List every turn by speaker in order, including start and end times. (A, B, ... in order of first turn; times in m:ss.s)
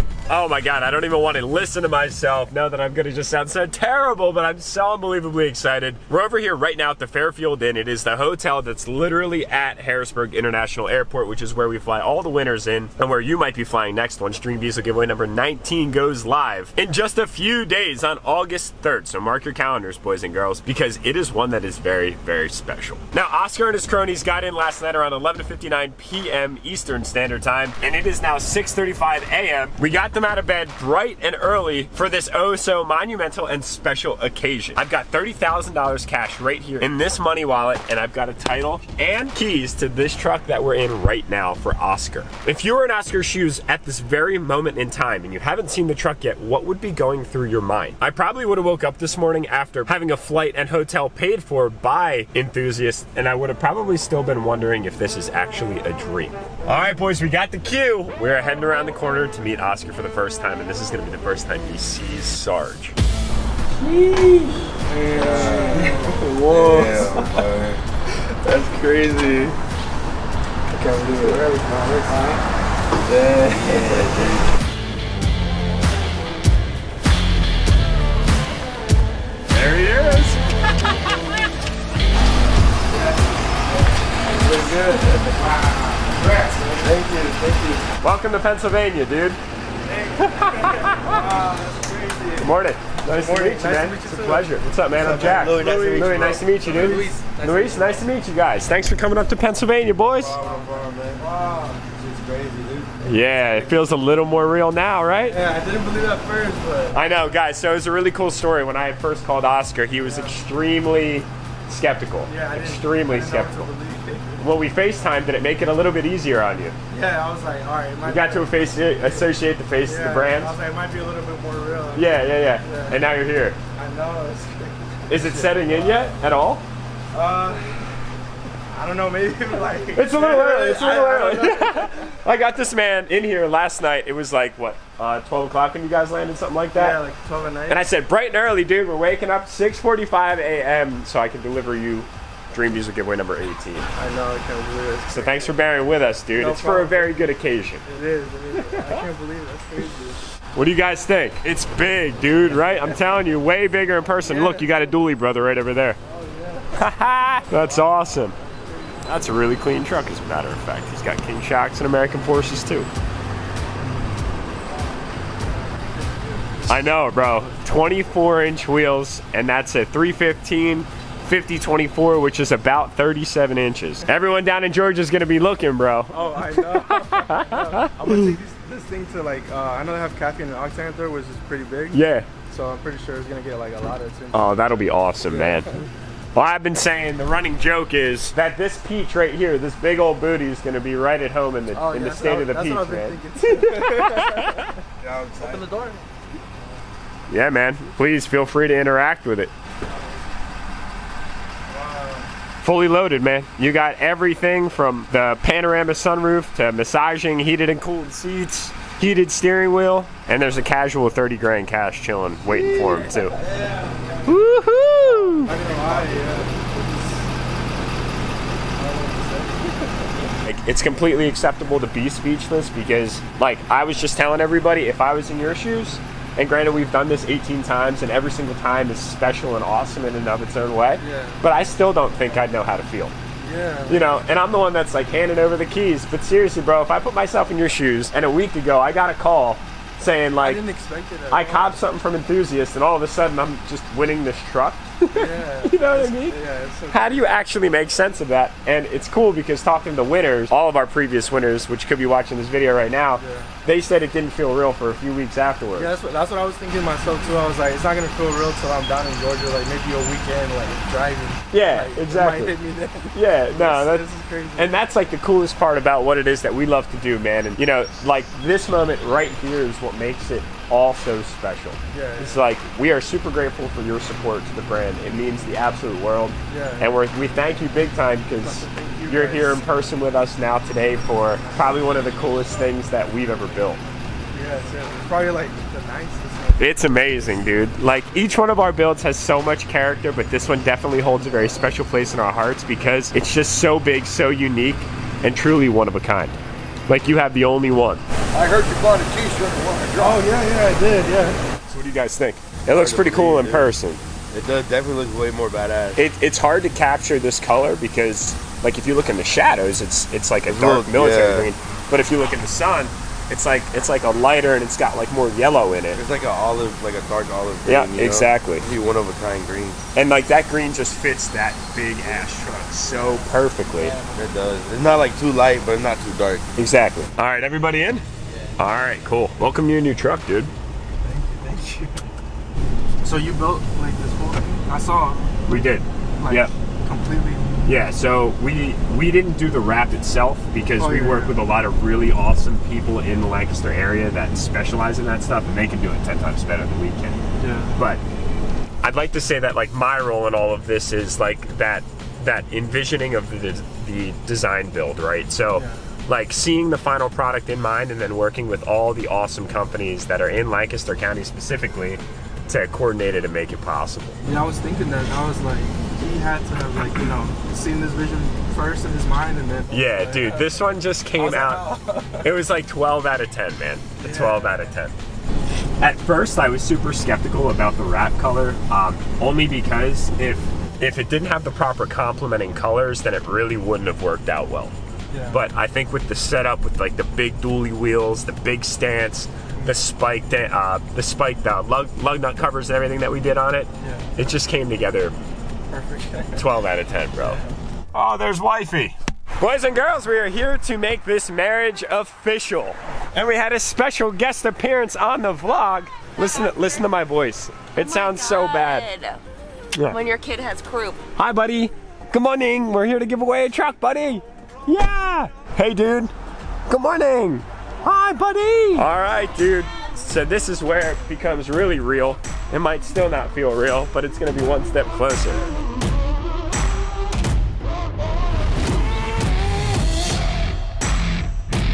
0:00.3-1:02.9 A
1:03.8-1:04.5 A
1:04.8-1:07.4 B
1:05.2-1:07.8 C
1:08.4-1:09.5 B
1:10.7-1:12.4 B
1:11.2-1:11.6 C
1:13.1-1:14.1 B
1:13.4-1:14.4 C
1:19.5-1:20.4 A
1:22.9-1:23.4 B
1:24.1-1:27.8 B
1:28.0-1:29.4 A
1:29.8-1:32.5 B
1:30.2-1:31.4 A
1:32.4-1:40.4 A
1:33.0-1:38.0 B
1:34.9-1:36.7 C
1:40.2-1:43.0 C
1:40.2-1:41.8 B
1:43.0-1:45.4 A
1:45.2-1:47.0 B
1:46.9-1:53.7 A
1:50.0-1:50.4 B
1:52.2-1:54.4 B
1:54.4-1:56.7 A
1:56.9-2:03.1 B
1:58.0-2:00.5 A
2:01.9-2:03.6 A
2:03.7-2:06.2 B
2:05.1-2:06.6 A
2:07.1-2:08.0 B
2:08.7-2:12.2 B
2:09.9-2:17.0 A
2:16.7-2:17.8 B
2:17.7-2:23.8 A
2:23.9-2:25.6 B
2:25.1-2:27.8 A
2:26.3-2:27.2 B
2:27.8-2:30.3 B
2:28.5-2:29.0 A
2:30.5-2:36.0 A
2:34.2-2:34.9 B
2:36.0-2:36.9 B
2:36.7-2:38.3 A
2:37.4-2:39.0 B
2:39.0-2:42.9 A
2:45.6-2:46.7 B
2:46.7-2:58.0 A
2:56.1-3:05.9 B
3:01.9-3:02.3 A
3:04.3-3:05.8 A
3:06.3-3:14.7 A
3:11.7-3:14.8 B
3:15.0-3:15.7 C
3:15.4-3:16.1 B
3:17.3-3:19.5 A
3:21.7-3:22.3 B
3:22.6-3:33.4 A
3:32.5-3:34.4 B
3:34.2-3:35.5 A
3:35.0-3:37.2 B
3:35.6-3:36.4 C
3:38.7-3:40.2 B
3:40.4-3:53.1 A
3:51.0-3:51.4 B
3:53.4-3:54.0 B
3:53.9-4:00.6 A
4:00.4-4:01.8 B
4:01.3-4:15.9 A
4:05.1-4:07.3 B
4:13.2-4:13.5 B
4:15.7-4:24.8 B
4:21.5-4:22.5 A
4:23.1-4:24.0 A
4:24.6-4:43.8 A
4:31.9-4:32.4 B
4:36.5-4:36.9 B
4:38.4-4:39.6 B
4:41.4-4:42.2 B
4:44.3-4:47.0 B
4:46.6-4:56.4 A
4:56.9-4:58.0 A
4:58.3-5:00.2 C
5:00.0-5:01.4 B
5:01.7-5:04.0 A
5:02.6-5:03.7 C
5:04.3-5:06.0 C
5:06.0-5:16.0 A
5:10.5-5:11.5 C
5:15.9-5:19.8 C
5:17.6-5:18.6 A
5:19.9-5:24.0 A
5:24.1-5:26.4 C
5:26.6-5:28.0 A
5:28.6-5:30.5 A
5:31.0-5:32.0 B
5:33.0-5:35.4 B
5:35.4-5:36.5 A
5:36.2-5:37.6 B
5:37.6-5:47.2 A
5:40.8-5:41.4 B
5:47.4-5:47.8 B
5:47.8-5:48.0 A
5:48.8-6:04.2 A
5:55.5-5:55.8 B
6:04.2-6:10.6 B
6:09.7-6:14.9 A
6:11.1-6:12.3 B
6:14.0-6:14.7 B
6:15.8-6:24.7 A
6:25.1-6:25.4 B
6:25.3-6:35.1 A
6:29.6-6:29.8 B
6:33.8-6:34.1 B
6:35.7-6:36.4 B
6:36.3-6:37.4 A
6:37.2-6:37.5 B
6:37.9-6:48.9 A
6:47.8-6:49.2 D
6:49.7-6:50.0 A
6:49.8-6:51.0 D
6:51.2-6:56.1 A
6:56.7-7:05.5 A